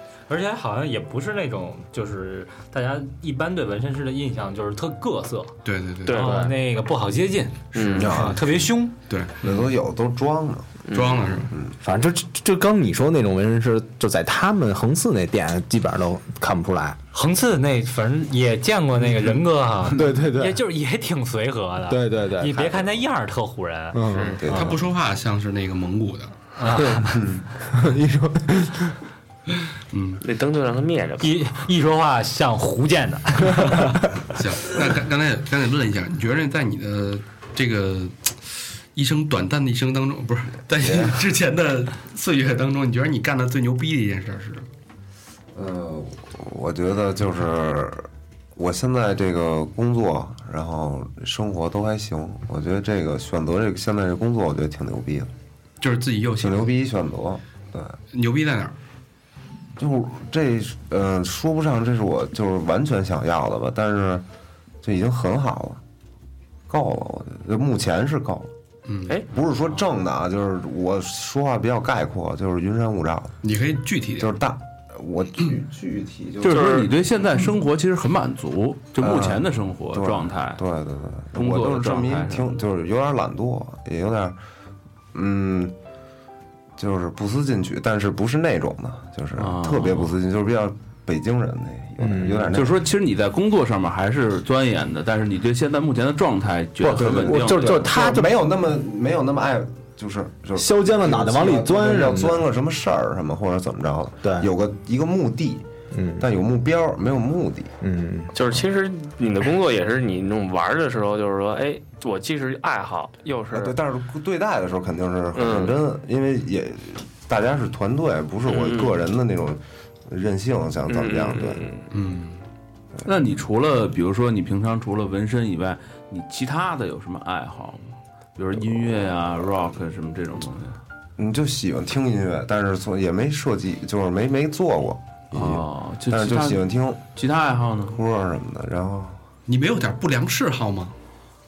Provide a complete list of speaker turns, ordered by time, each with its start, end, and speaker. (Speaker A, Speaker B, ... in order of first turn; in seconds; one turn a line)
Speaker A: 0.3-5.5
Speaker B: 5.7-6.3
Speaker C: 6.0-6.4
Speaker A: 6.1-8.9
Speaker C: 7.7-8.3
Speaker D: 8.0-8.7
Speaker B: 9.1-9.7
Speaker D: 9.4-10.8
Speaker C: 10.9-11.5
Speaker B: 10.9-11.5
Speaker E: 11.8-17.0
Speaker A: 17.1-24.7
Speaker E: 19.9-20.6
Speaker E: 21.9-22.8
Speaker E: 23.9-24.4
Speaker C: 24.1-24.4
Speaker D: 24.4-24.8
Speaker B: 24.5-26.3
Speaker A: 26.6-27.2
Speaker E: 26.8-29.0
Speaker D: 27.1-27.4
Speaker B: 29.9-30.2
Speaker C: 30.2-31.4
Speaker A: 31.2-34.0
Speaker B: 34.3-44.7
Speaker D: 40.8-41.2
Speaker D: 45.5-55.3
Speaker B: 55.8-56.7
Speaker D: 56.4-58.0
Speaker B: 58.1-58.8
Speaker D: 59.8-64.2
Speaker D: 64.8-65.8
Speaker D: 66.7-68.5
Speaker B: 68.9-69.2
Speaker D: 69.3-73.3
Speaker B: 73.4-74.3
Speaker D: 74.2-76.8
Speaker F: 76.4-80.6
Speaker C: 76.5-76.9
Speaker D: 79.0-84.4
Speaker F: 81.3-82.6
Speaker D: 85.1-85.8
Speaker D: 86.8-92.9
Speaker F: 89.4-90.2
Speaker E: 92.0-92.6
Speaker F: 92.5-97.8
Speaker E: 96.8-98.4
Speaker D: 97.0-105.7
Speaker E: 100.6-102.5
Speaker E: 104.2-104.5
Speaker E: 105.9-106.3
Speaker D: 106.2-107.7
Speaker E: 107.8-108.3
Speaker C: 108.3-113.8
Speaker D: 113.5-121.6
Speaker C: 115.3-115.8
Speaker C: 118.5-118.9
Speaker C: 120.9-121.9
Speaker B: 121.9-122.4
Speaker F: 123.0-130.8
Speaker D: 131.2-137.0
Speaker F: 135.3-138.0
Speaker D: 137.9-139.2
Speaker B: 139.5-140.9